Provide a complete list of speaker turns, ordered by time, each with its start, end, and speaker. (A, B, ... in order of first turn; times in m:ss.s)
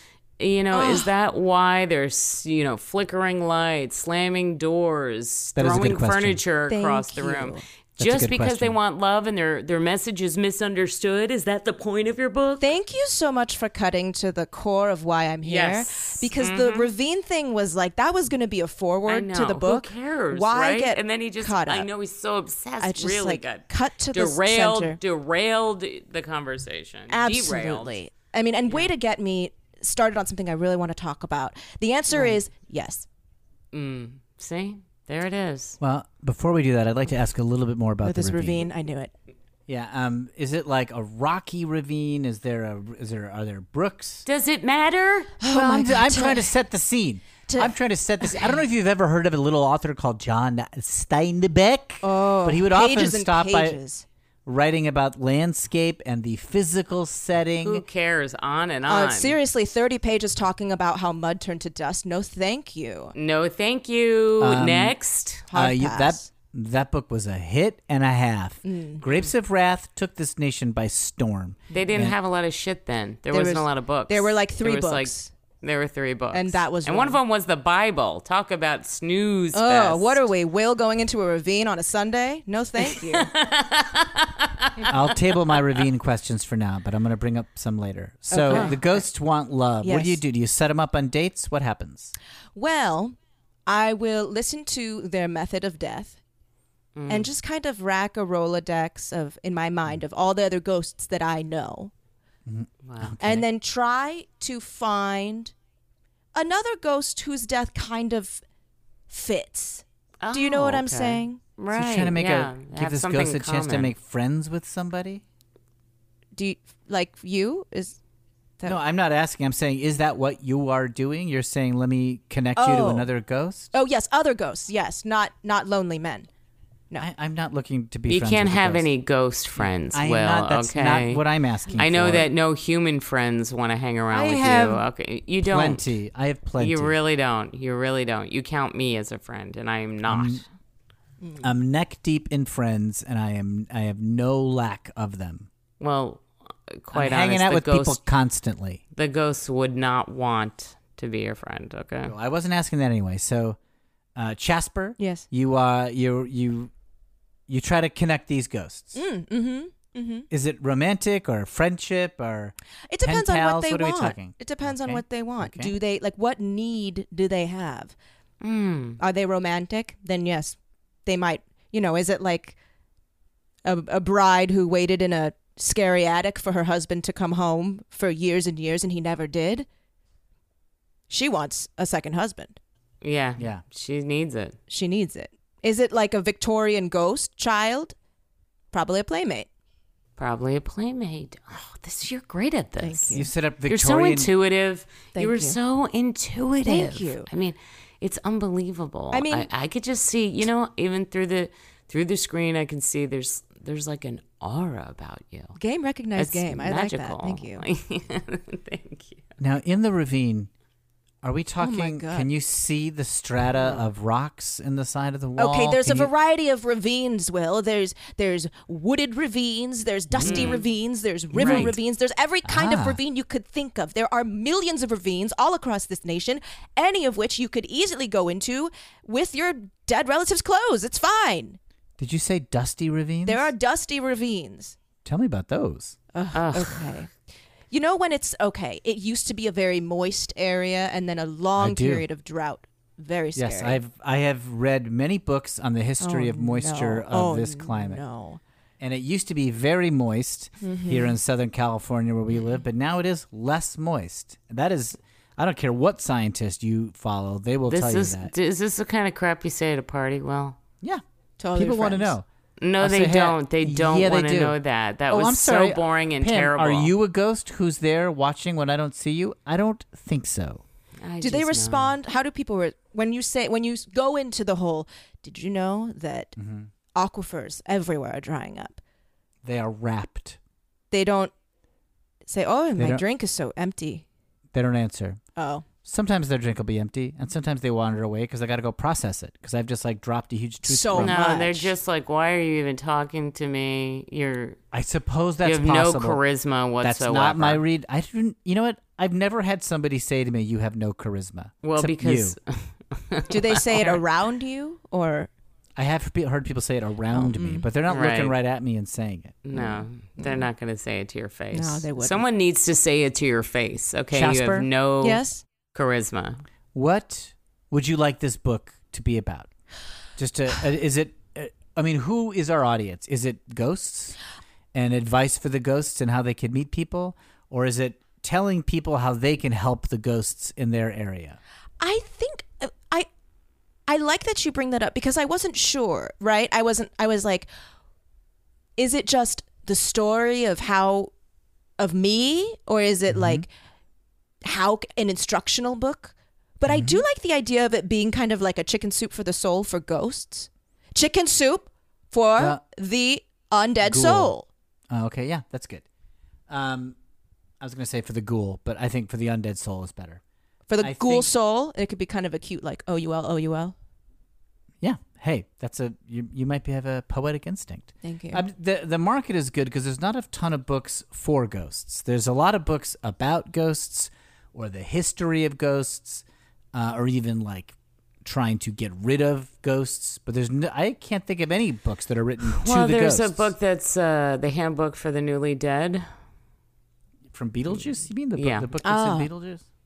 0:00.4-0:12.7 A
0:00.7-0:01.1 B
0:05.6-0:06.4 C
0:06.7-0:07.6 B
0:08.0-0:08.8 C
0:12.6-0:21.9 B
0:15.4-0:16.9 A
0:19.1-0:28.0 A
0:22.8-0:25.0 B
0:27.1-0:33.0 B
0:32.1-0:32.4 A
0:33.7-0:35.8 A
0:35.8-0:38.7 C
0:38.0-0:39.1 B
0:39.7-0:44.2 C
0:44.2-0:45.4 A
0:45.4-0:46.5 B
0:45.4-0:53.8 C
0:47.5-0:48.5 B
0:52.0-0:54.0 B
0:54.4-0:57.8 C
0:57.6-0:59.4 A
0:58.9-1:03.1 B
1:03.1-1:05.5 A
1:04.4-1:05.0 C
1:05.5-1:06.3 B
1:05.5-1:12.2 C
1:08.6-1:09.0 B
1:11.7-1:20.2 A
1:13.3-1:15.3 B
1:16.3-1:17.2 B
1:19.5-1:23.3 B
1:22.8-1:25.0 A
1:24.9-1:32.1 C
1:28.3-1:29.0 B
1:29.8-1:30.2 B
1:32.5-1:33.1 B
1:33.6-1:36.2 B
1:37.0-1:37.3 A
1:37.1-1:41.9 B
1:42.4-1:43.4 C
1:42.8-1:43.2 A
1:43.2-1:45.5 B
1:46.3-1:48.4 B
1:49.1-1:51.4 B
1:50.2-1:53.9 A
1:51.7-1:55.2 C
1:56.3-1:58.0 B
1:58.6-2:03.7 C
2:02.6-2:03.1 B
2:03.7-2:06.3 B
2:07.0-2:08.9 C
2:08.1-2:11.2 A
2:09.6-2:12.3 C
2:11.7-2:15.8 A
2:14.1-2:14.8 C
2:15.4-2:16.9 C
2:16.6-2:20.4 A
2:20.0-2:20.4 C
2:21.2-2:21.5 B
2:21.4-2:25.5 C
2:25.8-2:28.0 A
2:26.9-2:28.8 C
2:28.9-2:32.1 A
2:32.0-2:33.6 C
2:34.2-2:36.7 C
2:35.0-2:35.2 B
2:37.5-2:39.0 C
2:38.9-2:40.3 B
2:40.3-2:45.7 C
2:42.9-2:47.9 B
2:48.4-2:49.0 A
2:49.0-2:52.6 B
2:53.6-2:59.7 B
3:01.1-3:02.6 B
3:03.0-3:04.6 A
3:03.4-3:03.6 C
3:04.7-3:07.9 B
3:08.7-3:09.5 B
3:10.2-3:25.6 A
3:12.8-3:13.3 B
3:13.1-3:14.3 C
3:15.1-3:15.6 B
3:16.6-3:17.3 B
3:19.1-3:19.5 B
3:25.6-3:27.6 B
3:26.2-3:29.2 A
3:29.4-3:30.5 C
3:31.2-3:36.1 C
3:31.6-3:32.3 B
3:35.4-3:51.6 B
3:40.1-3:40.6 C
3:40.2-3:40.6 A
3:41.3-3:41.8 C
3:41.4-3:41.7 A
3:42.4-3:43.0 C
3:52.0-3:53.4 C
3:53.2-3:54.8 B
3:55.0-3:56.0 C
3:56.1-3:57.1 B
3:56.3-3:56.9 A
3:57.7-4:03.8 B
4:01.6-4:02.0 C
4:03.4-4:08.0 C
4:06.0-4:08.4 B
4:08.8-4:18.3 C
4:10.6-4:11.2 B
4:17.7-4:20.6 A
4:21.4-4:22.1 B
4:21.5-4:22.2 C
4:22.6-4:26.9 A
4:22.8-4:24.6 C
4:25.1-4:30.6 C
4:31.0-4:32.0 A
4:31.2-4:36.4 B
4:36.4-4:36.7 C
4:36.9-4:38.8 B
4:39.4-4:40.4 C
4:40.9-4:41.3 B
4:42.2-4:44.0 B
4:42.8-4:43.0 C
4:44.5-4:45.2 C
4:45.4-4:45.6 B
4:45.8-4:51.2 C
4:50.6-4:51.7 B
4:50.9-4:54.6 A
4:54.7-4:56.2 C
4:55.4-4:57.6 A
4:56.8-5:02.4 C
5:01.6-5:04.0 A
5:03.3-5:05.3 B
5:05.8-5:09.4 C
5:07.1-5:07.6 B
5:07.9-5:08.3 A
5:09.4-5:15.2 A
5:09.5-5:10.4 B
5:11.5-5:12.2 B
5:14.1-5:14.7 C
5:15.0-5:15.4 B
5:15.7-5:16.4 A
5:16.7-5:19.5 C
5:20.2-5:24.2 C
5:24.7-5:31.4 C
5:31.8-5:33.1 B
5:33.9-5:37.5 B
5:38.8-5:41.1 B
5:41.8-5:43.5 B
5:43.1-5:43.4 C
5:44.4-5:54.5 B
5:46.7-5:47.0 C
5:52.4-5:52.6 C
5:53.8-5:54.3 C
5:54.9-5:55.8 C
5:56.5-5:57.0 C
5:57.6-6:00.2 C
6:00.7-6:03.7 B
6:00.8-6:01.3 C
6:04.8-6:23.5 C
6:08.0-6:08.4 B
6:22.5-6:26.1 A
6:27.3-6:29.6 C
6:28.3-6:28.7 A
6:28.8-6:29.3 B